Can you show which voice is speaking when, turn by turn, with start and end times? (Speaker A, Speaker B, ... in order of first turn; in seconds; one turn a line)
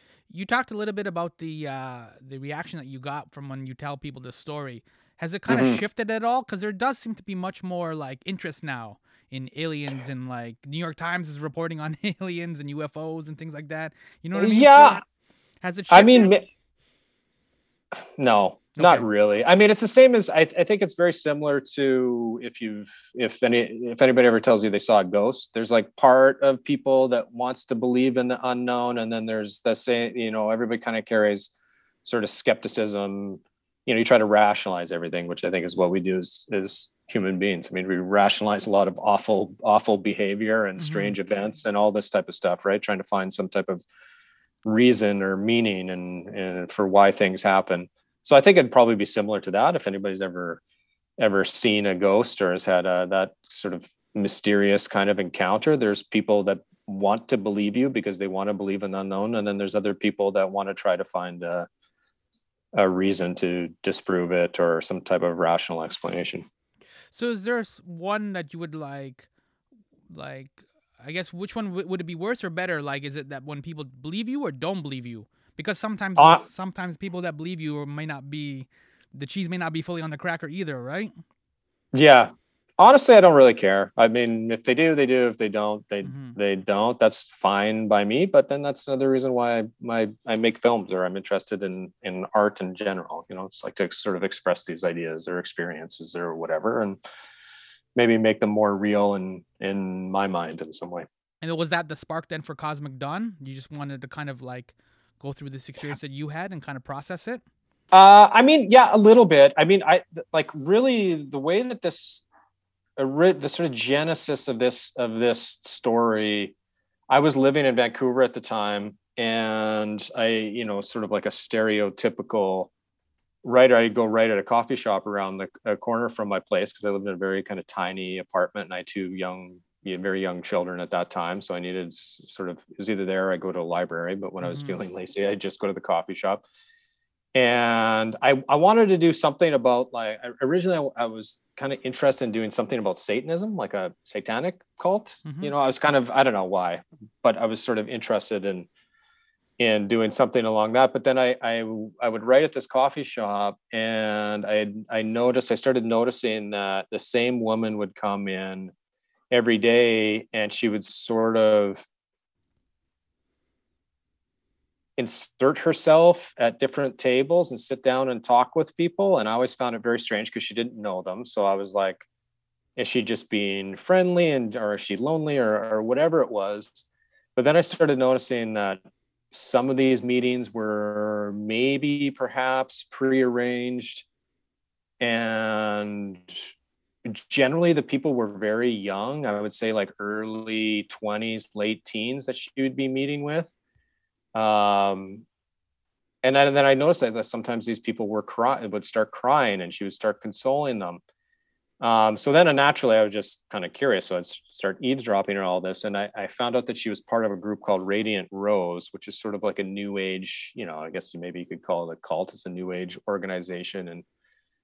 Speaker A: 0.3-15.0
Speaker B: 5.5-5.8
Speaker B: 14.3-15.0
Speaker A: 15.6-16.3
Speaker B: 15.9-16.4
Speaker B: 18.2-31.5
Speaker A: 18.8-19.1
Speaker B: 32.0-43.8
Speaker A: 40.8-41.2
Speaker B: 44.6-50.6
Speaker B: 51.2-61.7
Speaker B: 62.7-66.4
Speaker A: 67.1-69.3
Speaker A: 70.1-81.1
Speaker B: 76.2-76.4
Speaker B: 81.9-97.0
Speaker A: 86.0-86.4
Speaker B: 98.0-101.1
Speaker A: 101.4-107.4
Speaker B: 107.9-112.3
Speaker B: 113.0-116.5
Speaker B: 117.1-122.7
Speaker B: 123.4-136.4
Speaker A: 134.4-134.8
Speaker B: 137.3-148.7
Speaker A: 145.2-145.5
Speaker B: 149.6-158.7
Speaker B: 159.3-161.9
Speaker B: 165.0-172.1
Speaker B: 172.8-178.8
Speaker B: 179.3-184.1
Speaker B: 185.0-186.4
Speaker B: 187.1-193.5
Speaker B: 194.3-195.2
Speaker B: 196.2-201.0
Speaker B: 201.8-214.1